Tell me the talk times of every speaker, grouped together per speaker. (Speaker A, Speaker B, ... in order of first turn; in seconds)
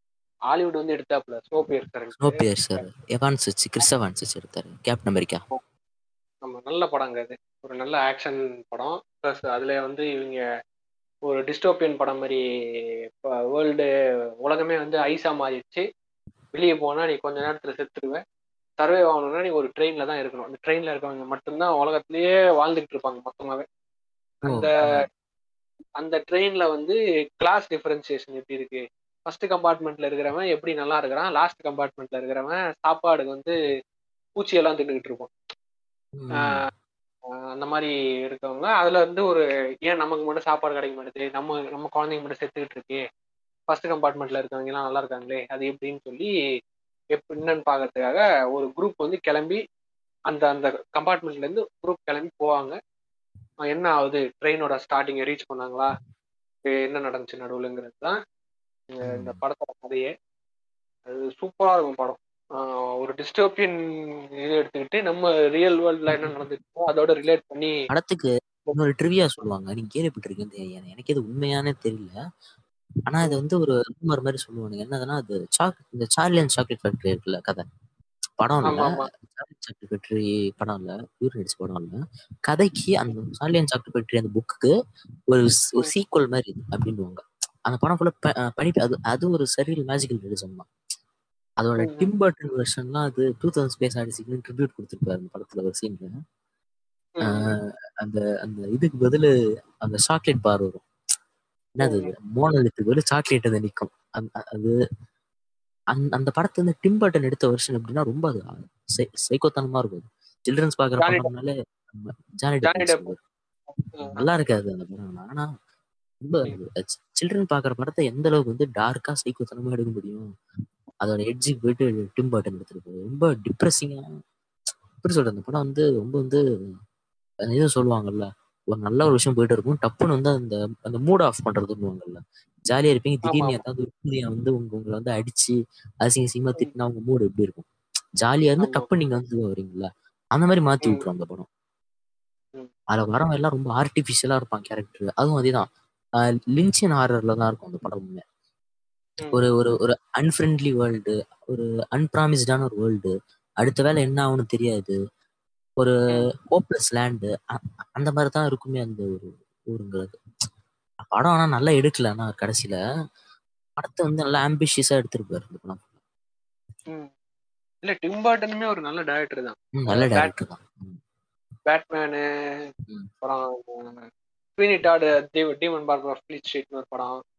Speaker A: 0.5-2.8, 6.4-10.4, 11.2-12.4, 13.2-13.9, 14.4-15.8, 16.5-18.2, 18.8-23.6, 24.4-25.1, 26.0-33.6, 34.4-35.3, 36.4-36.6, 37.5-43.0, 43.7-46.3, 47.1-49.6, 50.3-52.8, 53.7-55.9, 56.6-58.2, 58.9-60.1, 61.1-67.8, 78.7-79.1, 91.8-92.1, 97.2-97.5, 101.8-102.1, 111.0-111.3, 112.6-113.1, 113.8-114.3, 133.3-133.6, 138.6-138.9, 167.8-170.3, 171.7-172.7, 173.2-177.2
Speaker B: 2.2-5.4, 24.5-25.1, 36.2-36.6, 59.1-59.4, 67.9-72.1, 73.1-77.6, 78.4-84.7, 85.3-90.7, 91.6-96.1, 97.2-99.3, 99.8-100.8, 101.8-104.8, 105.9-113.2, 114.2-115.5, 116.2-120.3, 121.0-124.0, 125.0-126.4, 127.5-137.7, 138.2-141.5, 142.9-145.7, 146.2-148.2, 149.3-155.0, 156.5-160.1, 161.1-162.8, 163.8-165.9, 169.8-171.0